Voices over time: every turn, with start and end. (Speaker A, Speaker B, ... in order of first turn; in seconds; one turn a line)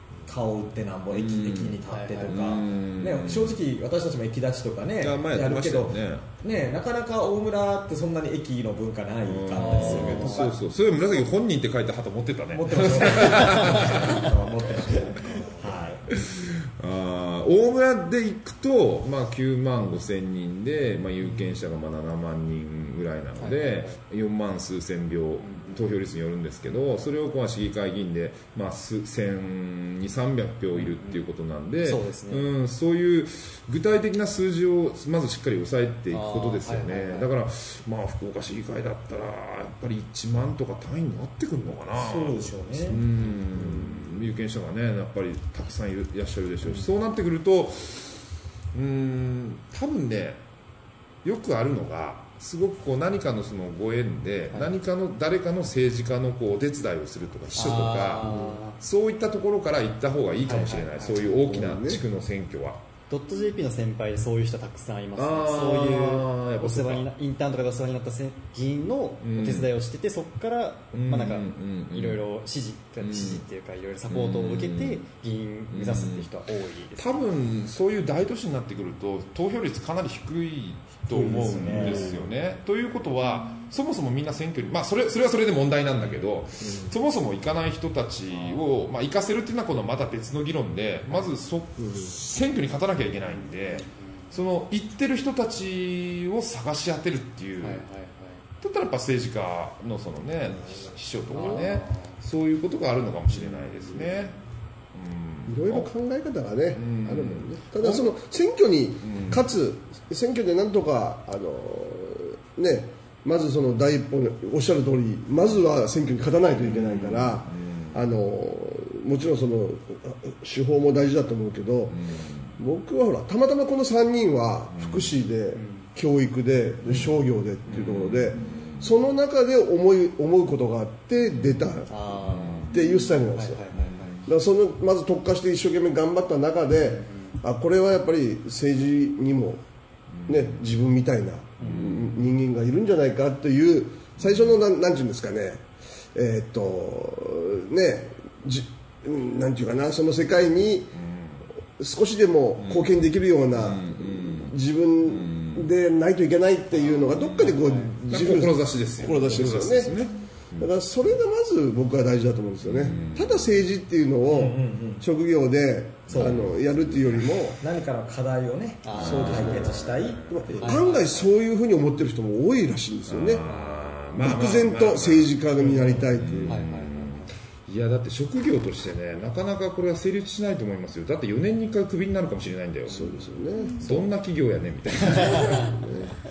Speaker A: 0.3-10.6
Speaker B: 1.1-3.6
Speaker C: 1.9-2.6
Speaker B: 5.0-6.3
Speaker B: 9.2-15.4
Speaker C: 9.5-10.5
Speaker A: 12.5-16.1
Speaker C: 15.2-15.5
Speaker B: 16.1-48.2
Speaker C: 23.4-24.0
Speaker C: 25.4-25.9
Speaker C: 30.7-31.2
Speaker C: 31.8-32.5
Speaker C: 36.1-37.3
Speaker A: 41.9-43.0
Speaker D: 43.5-44.0
Speaker C: 46.6-46.9
Speaker B: 48.7-50.4
Speaker B: 51.2-62.8
Speaker C: 57.5-58.8
Speaker D: 58.3-58.6
Speaker C: 60.5-61.2
Speaker D: 61.2-62.0
Speaker C: 63.1-77.3
Speaker B: 65.2-67.1
Speaker B: 69.2-69.7
Speaker B: 70.9-72.2
Speaker B: 73.0-73.5
Speaker B: 74.1-75.0
Speaker B: 75.7-76.3
Speaker B: 77.0-97.8
Speaker A: 81.1-82.1
Speaker D: 81.2-82.2
Speaker C: 81.7-82.2
Speaker D: 86.6-86.9
Speaker C: 88.3-88.6
Speaker D: 91.8-92.1
Speaker C: 93.8-94.3
Speaker C: 97.6-98.4
Speaker B: 98.6-104.4
Speaker D: 100.5-101.6
Speaker C: 101.3-102.2
Speaker B: 104.9-105.9
Speaker D: 105.5-122.0
Speaker B: 106.7-108.1
Speaker B: 109.0-109.5
Speaker B: 116.6-118.0
Speaker B: 121.9-122.6
Speaker D: 122.6-131.9
Speaker B: 124.7-125.2
Speaker C: 125.5-125.9
Speaker B: 126.9-127.2
Speaker B: 127.7-129.0
Speaker B: 131.3-132.9
Speaker C: 131.9-132.7
Speaker D: 132.7-133.7
Speaker C: 133.3-134.2
Speaker B: 133.7-134.3
Speaker D: 134.2-139.6
Speaker C: 136.8-137.4
Speaker B: 140.1-140.6
Speaker D: 140.3-145.6
Speaker C: 141.6-141.9
Speaker B: 141.6-142.3
Speaker B: 144.2-144.6
Speaker D: 146.2-150.9
Speaker B: 150.9-151.5
Speaker D: 151.8-167.6
Speaker B: 152.6-153.0
Speaker B: 153.5-155.7
Speaker C: 156.7-157.9
Speaker B: 157.0-160.7
Speaker B: 162.6-163.6
Speaker A: 164.3-165.1
Speaker A: 166.1-166.4
Speaker B: 166.1-167.5
Speaker A: 167.6-171.0
Speaker C: 168.8-169.9
Speaker B: 169.0-170.7
Speaker D: 169.0-173.4
Speaker C: 170.6-171.3
Speaker B: 173.1-183.3
Speaker D: 174.2-176.7
Speaker C: 176.5-177.3
Speaker D: 182.9-184.1
Speaker B: 183.8-186.1
Speaker C: 185.2-185.7
Speaker D: 185.3-186.2